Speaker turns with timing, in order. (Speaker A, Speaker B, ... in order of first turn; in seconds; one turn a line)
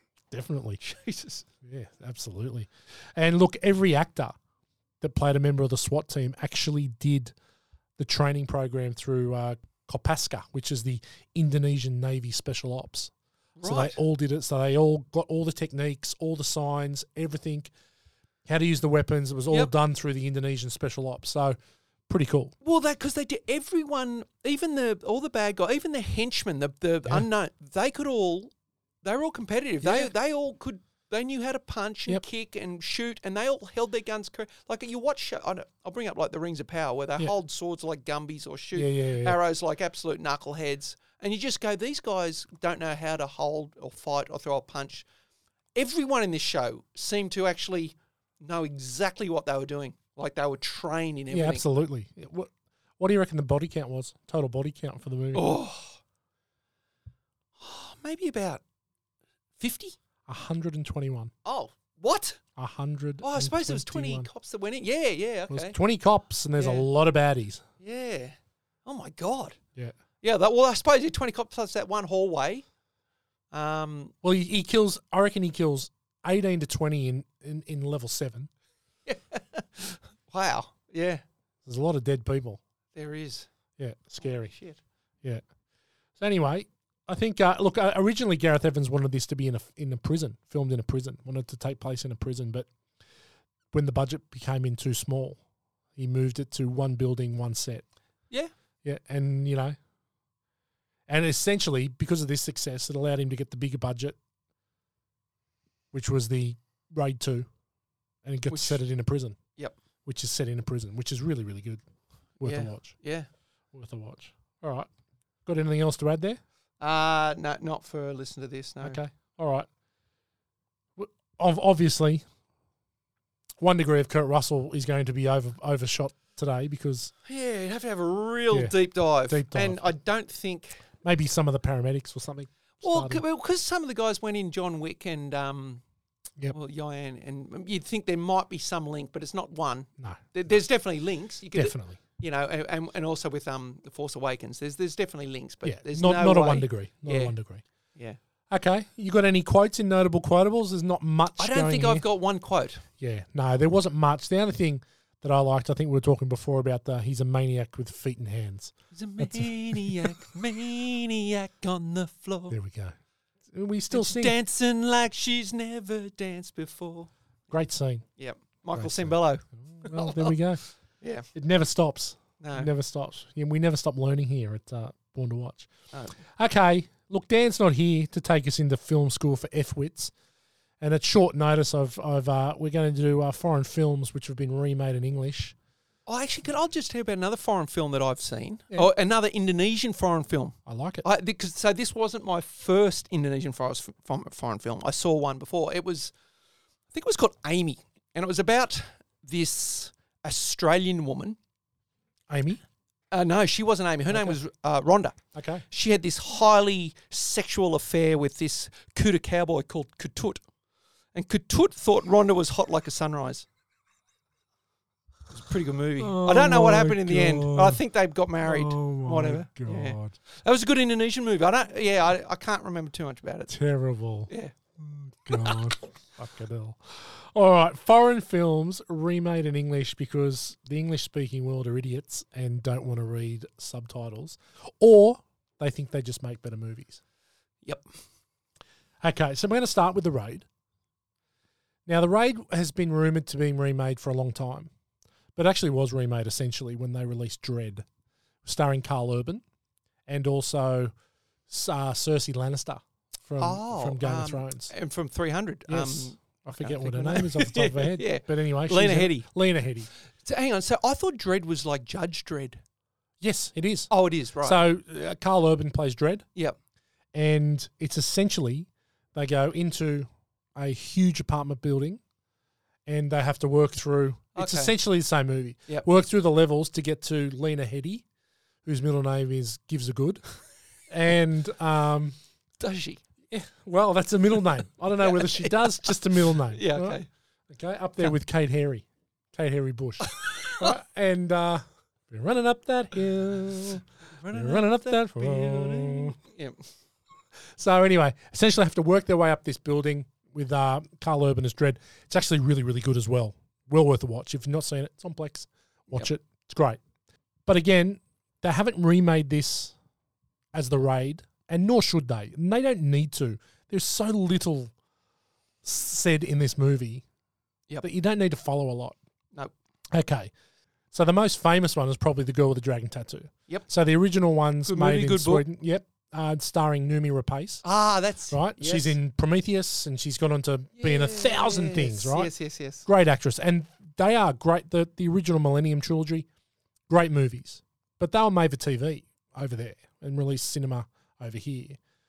Speaker A: 0.3-0.8
Speaker B: 0.8-1.5
Speaker A: 1.6-4.4
Speaker A: 5.0-7.3
Speaker A: 8.0-17.7
Speaker B: 13.6-14.0
Speaker A: 18.5-21.6
Speaker A: 22.1-22.6
Speaker B: 22.6-28.5
Speaker B: 29.0-45.1
Speaker A: 29.8-30.1
Speaker A: 38.8-39.4
Speaker B: 45.8-51.6
Speaker A: 51.3-55.5
Speaker B: 55.3-56.0
Speaker B: 57.6-58.6
Speaker B: 59.6-60.0
Speaker A: 60.3-61.3
Speaker B: 61.5-62.4
Speaker A: 62.6-64.3
Speaker B: 63.2-65.8
Speaker A: 65.5-67.6
Speaker B: 66.6-66.9
Speaker B: 67.8-69.6
Speaker B: 70.2-72.7
Speaker B: 73.5-74.2
Speaker A: 74.2-78.5
Speaker B: 79.1-81.2
Speaker A: 81.7-82.6
Speaker B: 83.0-83.5
Speaker A: 83.8-84.5
Speaker B: 84.2-84.8
Speaker A: 86.2-92.7
Speaker A: 93.7-95.4
Speaker A: 96.0-97.8
Speaker A: 98.8-99.8
Speaker A: 101.1-104.2
Speaker A: 105.9-107.5
Speaker A: 108.2-109.4
Speaker B: 108.5-108.8
Speaker A: 110.0-111.8
Speaker A: 112.4-113.0
Speaker B: 112.4-113.3
Speaker A: 113.7-114.9
Speaker A: 115.5-116.4
Speaker B: 116.8-119.0
Speaker A: 118.8-119.7
Speaker A: 121.0-122.2
Speaker A: 123.6-127.1
Speaker B: 127.3-130.8
Speaker A: 128.5-129.9
Speaker A: 131.0-133.2
Speaker B: 132.8-135.8
Speaker B: 136.5-147.3
Speaker A: 140.0-140.6
Speaker A: 141.5-142.0
Speaker A: 145.6-147.6
Speaker A: 148.5-152.0
Speaker B: 151.4-152.8
Speaker A: 153.0-160.2
Speaker B: 158.9-162.6
Speaker A: 162.5-162.9
Speaker A: 163.5-164.4
Speaker B: 163.9-167.1
Speaker A: 167.5-168.1
Speaker B: 168.2-170.3
Speaker A: 168.8-170.6
Speaker B: 171.0-171.3
Speaker A: 171.3-175.7
Speaker B: 172.4-172.7
Speaker A: 176.4-180.1
Speaker A: 180.8-185.6
Speaker B: 186.1-196.1
Speaker A: 190.7-191.0
Speaker B: 196.9-201.4
Speaker A: 202.3-202.6
Speaker B: 203.1-205.2
Speaker A: 204.1-204.4
Speaker A: 205.3-205.6
Speaker B: 205.7-210.4
Speaker B: 211.2-213.5
Speaker B: 215.3-223.6
Speaker A: 216.0-217.8
Speaker A: 218.4-220.2
Speaker A: 223.5-224.3
Speaker B: 224.3-224.6
Speaker A: 224.8-237.0
Speaker B: 225.3-225.6
Speaker A: 239.0-240.5
Speaker A: 241.9-244.7
Speaker A: 245.3-247.8
Speaker A: 248.4-249.4
Speaker A: 250.1-250.9
Speaker A: 251.5-254.7
Speaker B: 253.4-259.3
Speaker A: 255.7-259.9
Speaker B: 260.2-262.6
Speaker A: 263.2-263.9
Speaker B: 263.9-264.6
Speaker A: 264.4-266.2
Speaker A: 267.1-272.0
Speaker A: 272.9-278.1
Speaker B: 274.4-274.7
Speaker A: 278.6-280.2
Speaker A: 280.9-282.2
Speaker B: 282.6-283.0
Speaker A: 283.3-296.2
Speaker B: 285.0-287.1
Speaker B: 290.1-290.7
Speaker B: 294.1-296.6
Speaker A: 297.5-306.8
Speaker A: 307.5-309.8
Speaker A: 310.5-314.7
Speaker A: 315.6-317.0
Speaker A: 317.8-319.0
Speaker A: 319.9-320.3
Speaker A: 320.9-327.6
Speaker B: 324.7-325.5
Speaker B: 327.6-329.0
Speaker A: 328.3-332.3
Speaker B: 330.8-332.9
Speaker A: 332.9-336.3
Speaker A: 336.9-341.8